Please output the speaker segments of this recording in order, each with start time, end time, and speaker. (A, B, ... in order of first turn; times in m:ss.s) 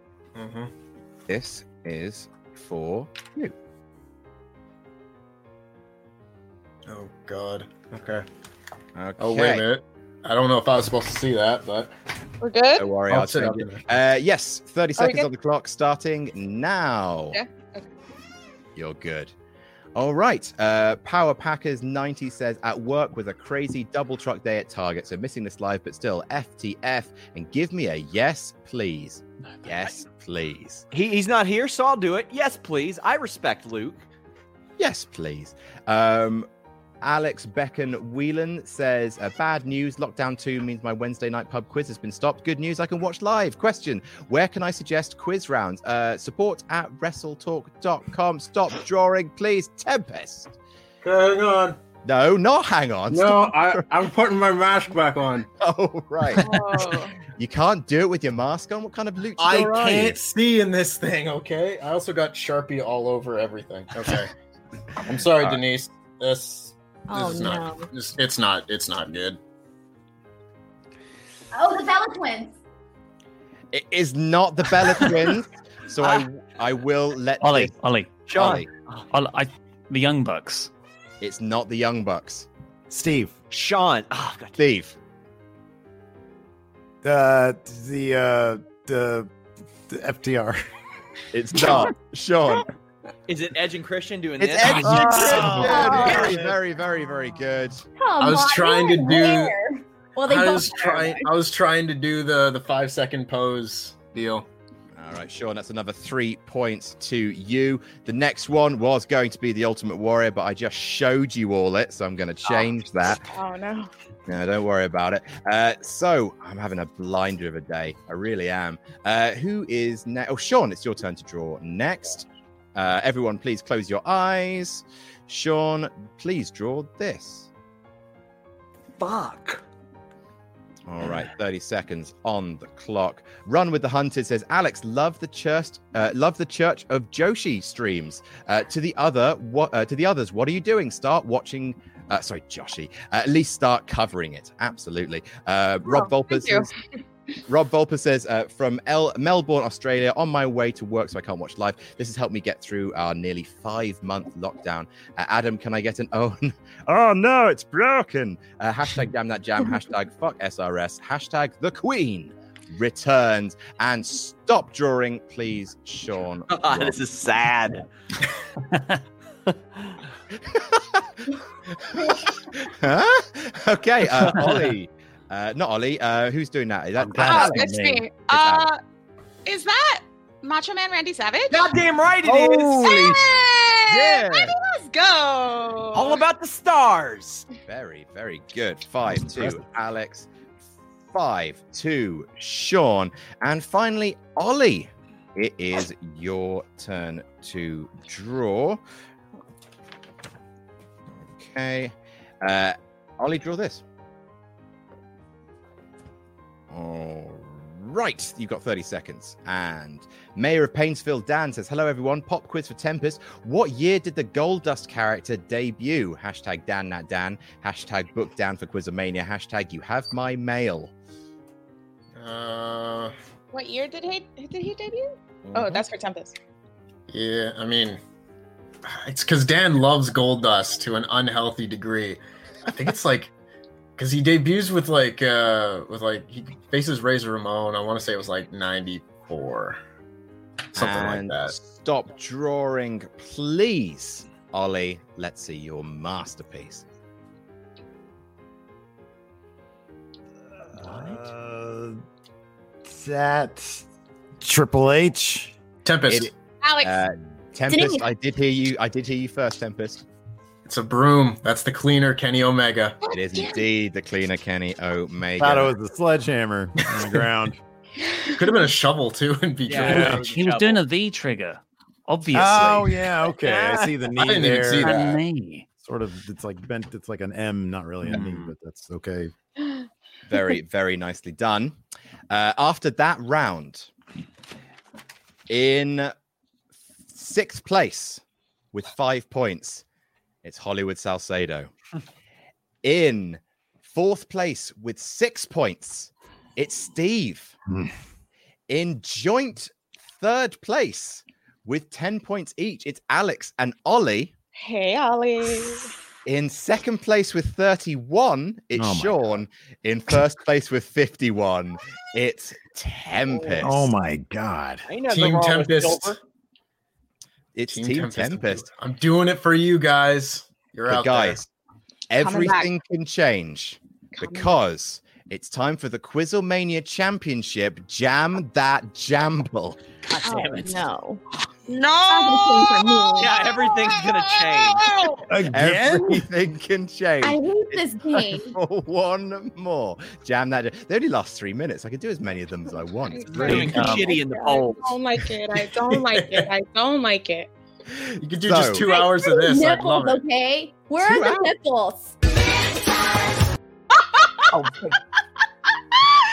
0:00.4-0:00.7 A
0:01.3-0:03.5 B
0:06.9-0:08.2 A
0:09.0-0:09.7 B
0:09.2-0:11.9 A
0:12.4-0:12.9 C
0:12.8-0:17.4 B
0:13.1-0:13.9 A
0:15.0-0:15.3 C
0:17.3-0:17.9 C
0:18.8-0:19.3 B
0:20.0-0:30.9 B
0:29.6-0:29.9 D
0:30.9-0:34.0 E
0:34.8-0:36.5 B
0:37.0-0:50.5 B
0:51.0-0:51.8 A
0:52.0-0:53.9 B
0:53.1-0:55.5 A
0:55.6-1:00.2 B
0:56.4-0:57.2 C
0:59.4-1:04.3 A
1:05.0-1:09.4 A
1:07.1-1:07.9 F
1:11.5-1:12.6 F
1:13.7-1:17.8 B
1:17.4-1:18.3 D
1:18.3-1:19.1 E
1:18.3-1:18.7 B
1:19.1-1:20.7 D
1:21.2-1:22.5 B
1:22.9-1:23.3 G
1:23.5-1:24.6 E
1:24.6-1:25.0 B
1:27.0-1:29.3 G
1:29.9-1:30.6 G
1:31.3-1:32.7 B
1:33.3-1:35.6 E
1:34.4-1:37.8 B
1:35.1-1:36.5 G
1:35.6-1:36.2 F
1:38.0-1:41.3 F
1:38.2-1:39.6 A
1:40.2-1:44.5 A
1:45.0-1:53.2 B
1:53.2-1:53.9 C
1:54.3-2:07.5 B
2:09.1-2:09.3 E
2:10.9-2:26.7 B
2:25.8-2:26.7 C
2:27.5-2:47.0 B
2:46.5-2:47.8 E
2:50.5-2:51.1 B
2:51.7-2:58.7 B
2:57.0-2:58.1 D
2:57.2-2:58.8 C
2:59.4-3:01.7 C
3:01.5-3:03.1 E
3:02.2-3:03.2 B
3:02.8-3:06.2 C
3:03.9-3:04.6 B
3:05.9-3:07.5 E
3:07.7-3:10.3 B
3:11.1-3:18.8 B
3:21.2-3:23.8 B
3:26.7-3:40.9 B
3:42.2-3:43.1 A
3:43.5-3:46.4 C
3:45.5-3:45.8 B
3:47.1-3:48.0 A
3:48.9-3:53.3 A
3:54.0-3:59.8 A
4:00.7-4:01.6 A
4:00.8-4:06.8 B
4:10.7-4:12.0 G
4:12.8-4:13.8 G
4:14.4-4:15.6 G
4:15.8-4:16.3 A
4:16.1-4:20.0 B
4:16.6-4:17.0 C
4:17.7-4:18.1 F
4:20.7-4:23.0 A
4:23.0-4:23.6 C
4:23.1-4:25.7 B
4:25.4-4:27.6 G
4:27.0-4:27.2 A
4:28.4-4:30.3 A
4:29.6-4:30.8 E
4:29.8-4:30.2 G
4:30.2-4:33.1 D
4:32.3-4:35.2 G
4:33.4-4:33.9 E
4:34.2-4:35.0 A
4:34.8-4:35.7 D
4:35.8-4:39.3 G
4:38.0-4:38.5 D
4:40.3-4:41.8 B
4:42.3-4:43.9 B
4:45.5-4:46.1 B
4:47.1-4:48.2 B
4:48.7-4:49.8 B
4:50.4-4:51.7 B
4:52.8-4:57.6 B
4:58.7-5:04.3 B
5:04.6-5:05.9 C
5:06.3-5:13.9 B
5:08.8-5:09.2 G
5:13.6-5:14.9 G
5:14.9-5:16.2 E
5:15.1-5:16.2 A
5:17.6-5:18.7 B
5:17.7-5:21.4 A
5:20.9-5:21.5 B
5:22.1-5:29.8 B
5:22.2-5:22.7 C
5:24.2-5:24.6 C
5:30.0-5:30.8 E
5:30.2-5:31.2 F
5:31.7-5:35.3 C
5:32.1-5:33.3 F
5:33.2-5:35.0 E
5:35.3-5:36.2 G
5:35.4-5:43.8 B
5:37.2-5:38.6 F
5:43.0-5:47.5 C
5:43.3-5:45.0 E
5:43.6-5:44.0 D
5:45.9-5:46.5 A
5:48.2-5:50.2 A
5:48.4-5:48.9 B
5:49.2-5:52.2 F
5:51.0-5:51.6 B